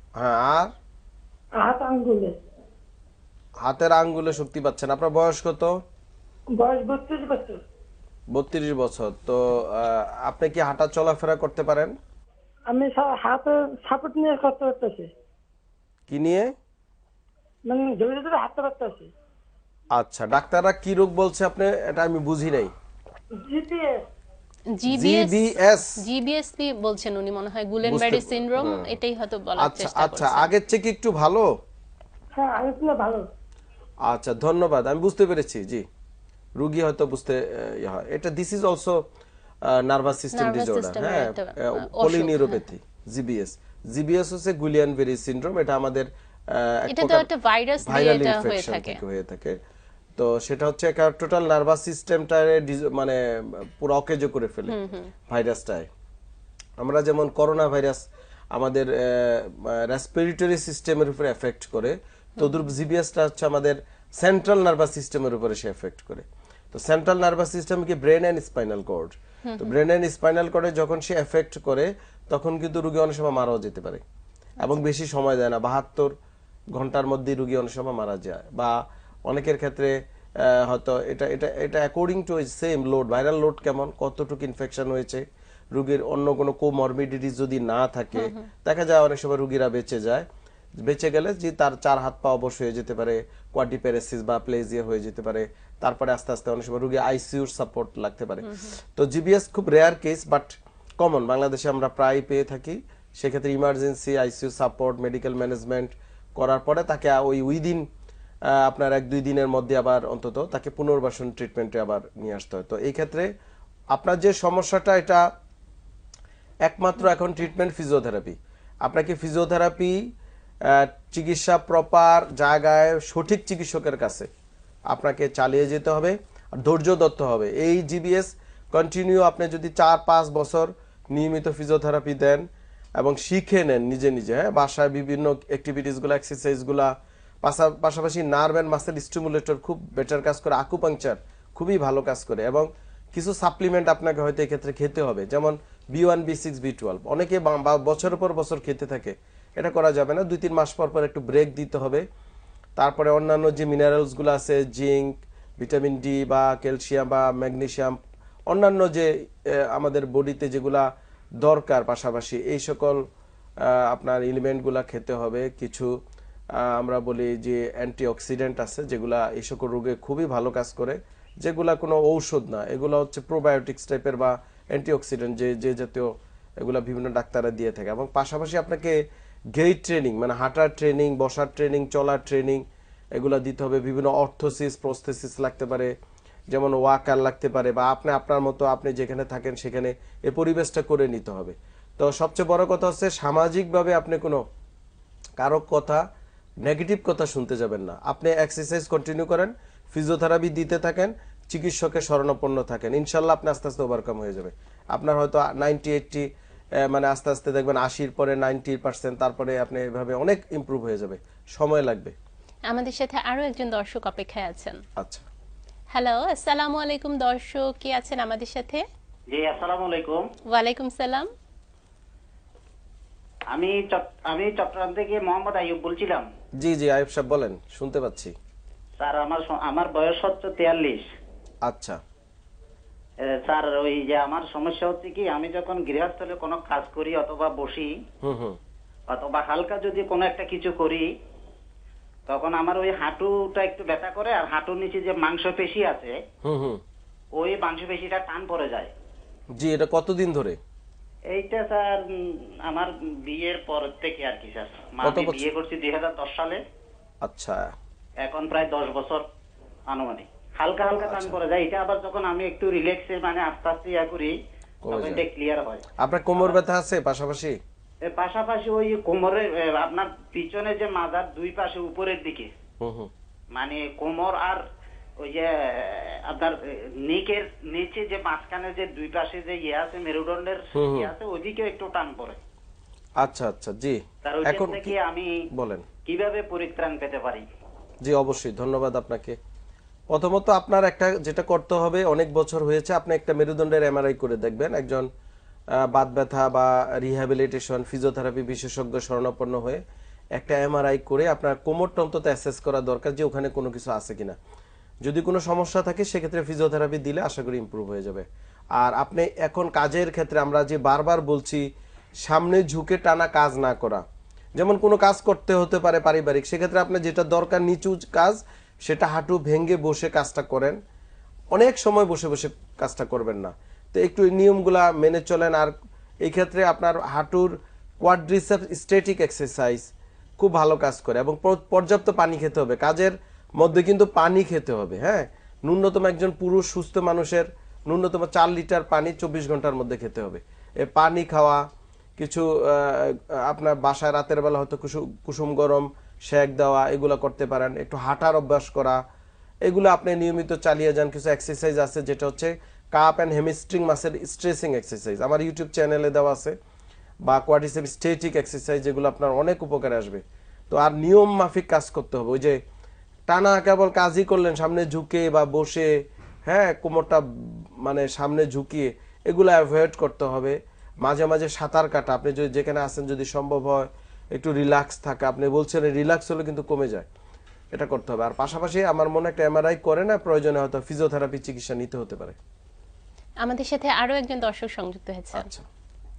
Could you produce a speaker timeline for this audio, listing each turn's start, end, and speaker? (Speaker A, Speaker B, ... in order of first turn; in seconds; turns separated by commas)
Speaker A: 0.2-0.7, Speaker B: 1.6-2.4, Speaker A: 3.6-5.7, Speaker B: 6.6-7.6, Speaker A: 8.3-11.9, Speaker B: 12.7-15.1, Speaker A: 16.1-16.5, Speaker B: 17.7-19.1, Speaker A: 19.9-22.7, Speaker B: 23.4-23.9, Speaker C: 24.8-25.4, Speaker A: 24.9-26.0, Speaker C: 26.0-30.5, Speaker A: 27.9-29.0, Speaker A: 29.6-31.5, Speaker B: 32.4-33.2, Speaker A: 34.1-35.8, Speaker A: 36.6-39.0, Speaker A: 39.7-47.3, Speaker C: 40.4-42.6, Speaker C: 46.9-49.0, Speaker A: 47.8-49.6, Speaker A: 50.2-54.8, Speaker C: 54.7-55.1, Speaker A: 55.3-55.9, Speaker A: 56.8-58.0, Speaker A: 58.5-74.0, Speaker C: 69.5-69.7, Speaker A: 74.6-76.1, Speaker A: 76.8-78.7, Speaker A: 79.3-90.2, Speaker C: 88.1-88.4, Speaker A: 90.8-107.9, Speaker A: 108.5-113.3, Speaker A: 113.9-115.2, Speaker A: 116.7-120.0, Speaker A: 120.7-124.3, Speaker A: 124.9-132.4, Speaker A: 133.0-136.9, Speaker A: 137.4-152.0, Speaker A: 152.8-158.0, Speaker A: 158.5-160.8, Speaker A: 161.4-163.0, Speaker A: 163.7-165.9, Speaker A: 166.6-176.1, Speaker A: 176.6-179.0, Speaker A: 179.6-182.6, Speaker A: 183.2-185.9, Speaker A: 186.5-194.4, Speaker A: 195.4-196.0, Speaker A: 196.6-206.3, Speaker A: 206.8-212.2, Speaker C: 212.7-214.8, Speaker A: 215.0-215.3, Speaker C: 215.9-218.8, Speaker D: 219.3-220.2, Speaker C: 220.5-221.3, Speaker D: 223.5-226.2, Speaker A: 226.6-228.3, Speaker D: 229.0-231.0, Speaker A: 231.7-232.0, Speaker D: 233.3-237.9, Speaker A: 238.2-238.6, Speaker D: 239.1-241.1, Speaker D: 242.3-246.2, Speaker A: 246.4-246.8, Speaker D: 247.3-248.9, Speaker A: 249.6-250.6, Speaker D: 251.3-252.0, Speaker D: 252.7-256.6, Speaker A: 255.0-255.4, Speaker A: 257.2-257.7, Speaker D: 258.2-259.2, Speaker D: 259.9-264.3, Speaker A: 261.0-261.4, Speaker A: 264.8-265.2, Speaker D: 264.9-265.8, Speaker A: 266.0-267.6, Speaker D: 268.1-272.5, Speaker A: 272.8-273.1, Speaker D: 273.5-274.6, Speaker D: 275.2-276.5, Speaker D: 277.1-282.4, Speaker A: 280.7-281.1, Speaker A: 283.2-285.0, Speaker D: 284.2-285.3, Speaker A: 285.5-285.8, Speaker D: 286.1-287.4, Speaker A: 288.0-289.4, Speaker A: 290.1-295.1, Speaker A: 295.8-299.8, Speaker A: 300.4-304.4, Speaker A: 305.0-311.7, Speaker A: 312.2-314.0, Speaker A: 314.6-320.8, Speaker A: 321.5-341.6, Speaker A: 342.2-349.0, Speaker A: 349.6-356.6, Speaker A: 357.3-362.6, Speaker A: 363.3-365.9, Speaker A: 366.4-377.1, Speaker A: 377.7-382.4, Speaker C: 383.4-385.5, Speaker A: 385.3-385.7